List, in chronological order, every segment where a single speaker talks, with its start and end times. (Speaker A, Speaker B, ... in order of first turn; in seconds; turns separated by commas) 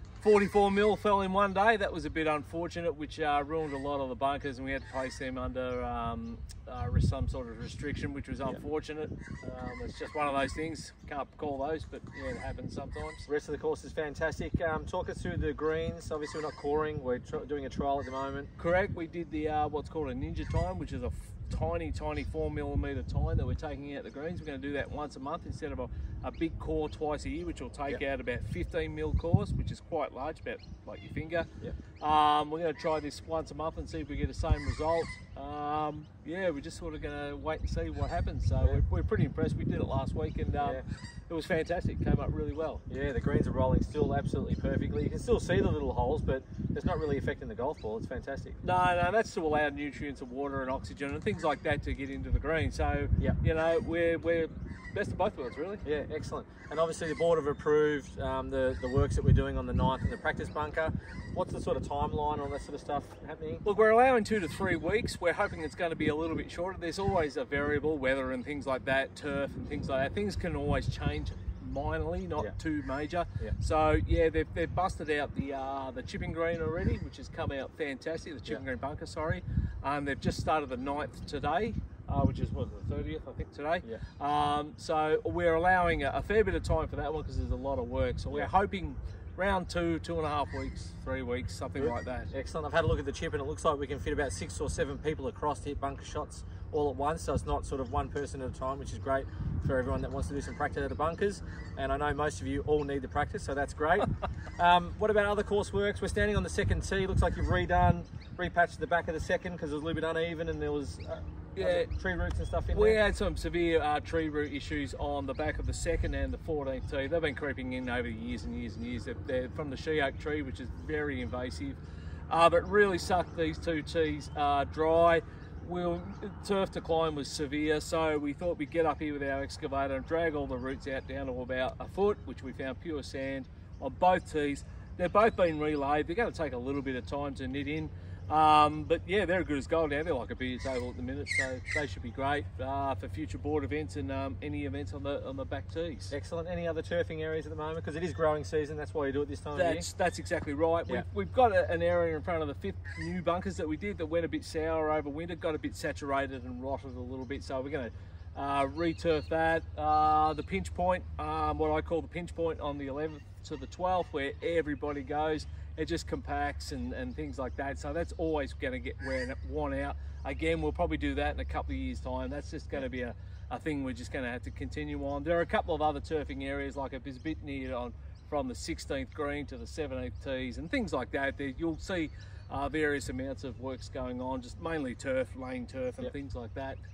Speaker A: 0.2-13.2, Speaker B: 13.3-18.5, Speaker A: 18.6-31.5, Speaker A: 32.0-42.8, Speaker B: 42.9-48.6, Speaker A: 48.6-55.8, Speaker B: 55.8-63.6, Speaker A: 63.6-92.3, Speaker B: 91.8-113.0, Speaker A: 111.5-111.9, Speaker A: 112.7-146.1, Speaker B: 146.1-149.9, Speaker A: 149.5-186.8